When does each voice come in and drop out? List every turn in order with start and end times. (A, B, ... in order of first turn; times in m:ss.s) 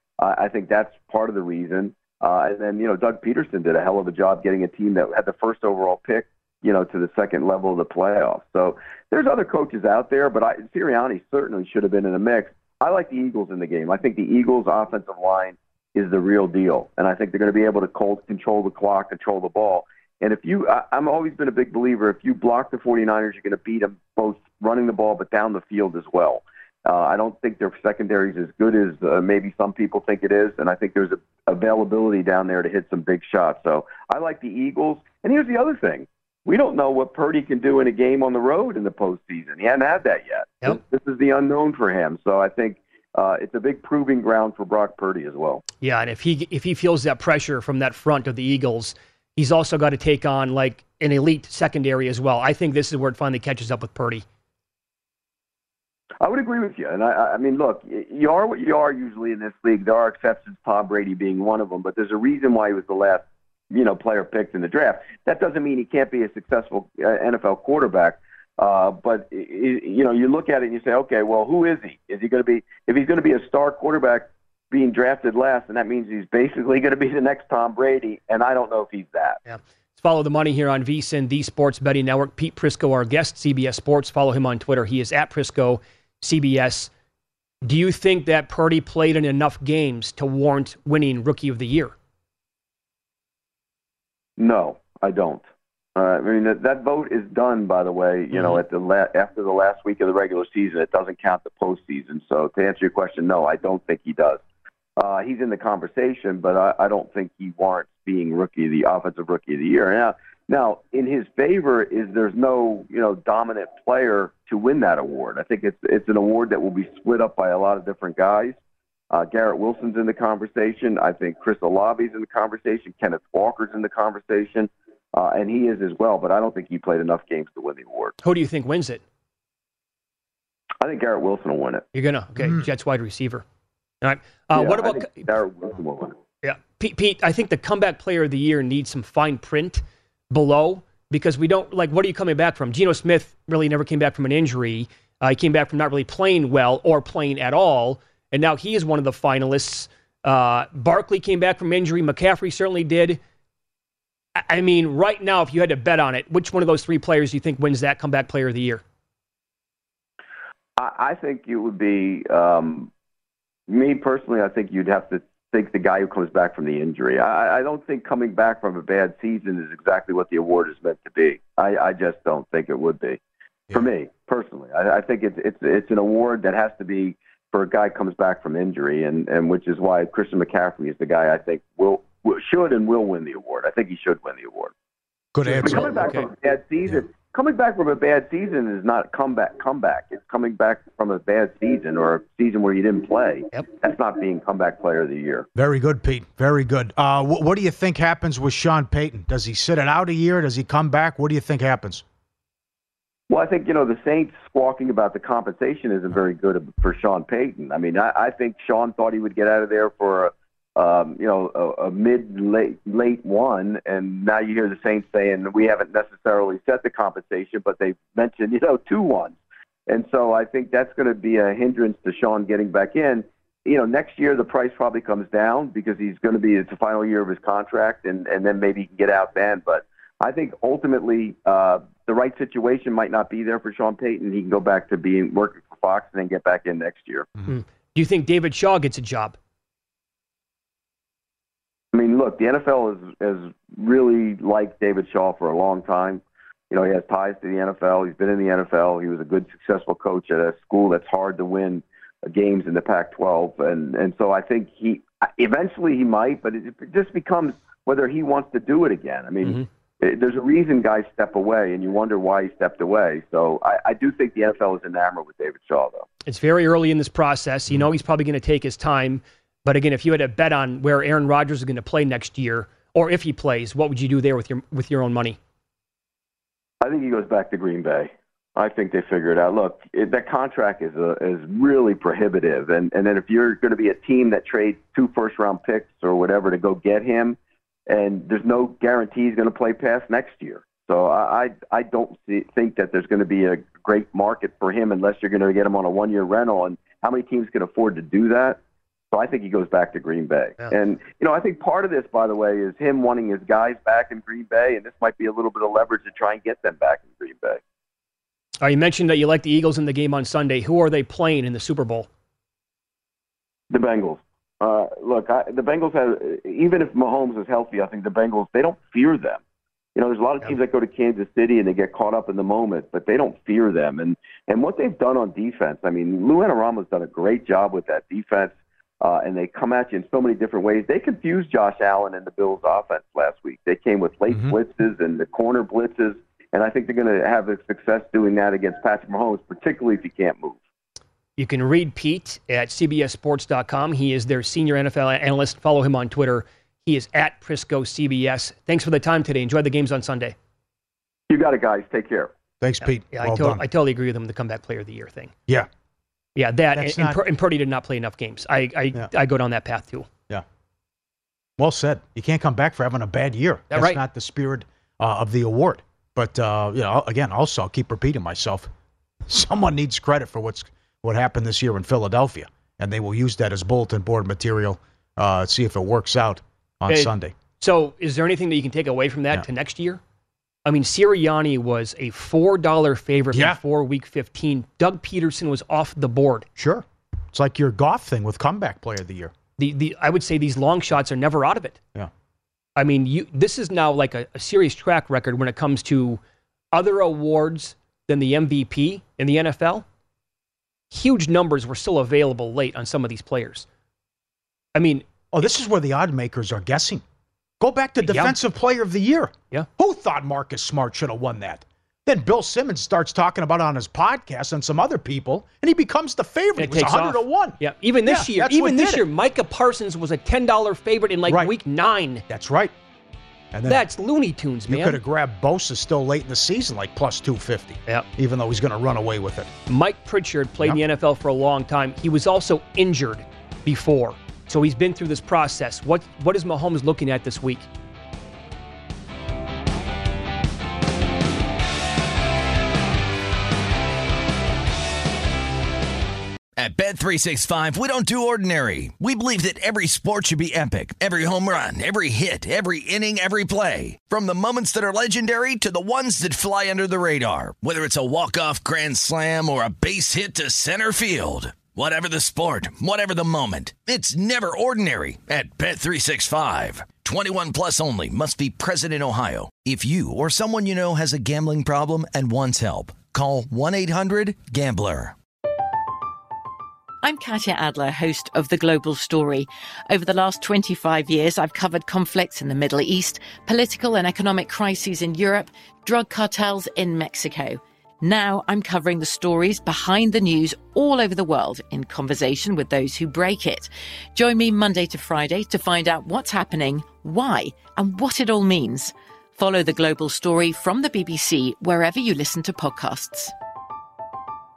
0:00.2-0:45.6 A
0:45.8-0:54.2 B
0:56.2-1:19.4 A
1:19.5-1:26.9 B
1:27.6-1:31.9 B
1:34.4-1:35.4 A
1:36.0-1:44.4 A
1:45.0-1:58.6 A
1:59.1-2:08.1 A
2:08.2-2:09.0 B
2:10.8-2:11.8 A
2:11.9-2:13.4 B
2:12.4-2:12.6 C
2:14.0-2:15.2 B
2:14.5-2:16.2 A
2:16.4-2:33.2 B
2:34.4-2:38.8 B
2:40.8-2:42.9 A
2:43.7-2:53.2 A
2:53.7-3:04.7 A
3:05.3-3:06.2 C
3:05.4-3:06.3 B
3:05.6-3:15.5 A
3:15.5-3:22.0 C
3:23.3-3:57.3 A
3:57.5-3:59.4 B
4:01.9-4:26.0 A
4:26.2-4:35.4 B
4:36.8-4:58.6 A
4:59.1-5:07.6 A
5:08.6-5:12.1 B
5:13.7-5:19.4 A
5:20.0-5:40.6 A
5:34.3-5:34.6 C
5:41.4-5:50.3 B
5:51.3-5:52.3 A
5:52.6-5:53.6 C
5:53.1-5:55.3 B
5:56.4-6:00.1 B
5:56.7-5:57.2 C
6:01.6-6:08.7 C
6:03.7-6:04.0 B
6:09.3-6:17.3 C
6:16.9-6:20.0 B
6:20.6-6:26.5 B
6:23.3-6:23.6 C
6:26.6-6:29.3 C
6:29.6-6:31.8 B
6:32.8-6:36.2 B
6:36.7-6:39.8 B
6:40.9-6:43.6 B
6:44.7-6:45.0 B
6:45.3-6:47.0 C
6:47.6-6:59.0 C
6:48.0-6:48.4 B
6:56.6-7:02.2 B
7:01.3-7:01.5 C
7:02.3-7:02.7 C
7:03.5-7:03.8 C
7:03.6-7:05.0 B
7:04.7-7:09.5 C
7:09.7-7:17.7 B
7:26.6-7:55.1 D
7:57.0-8:23.3 E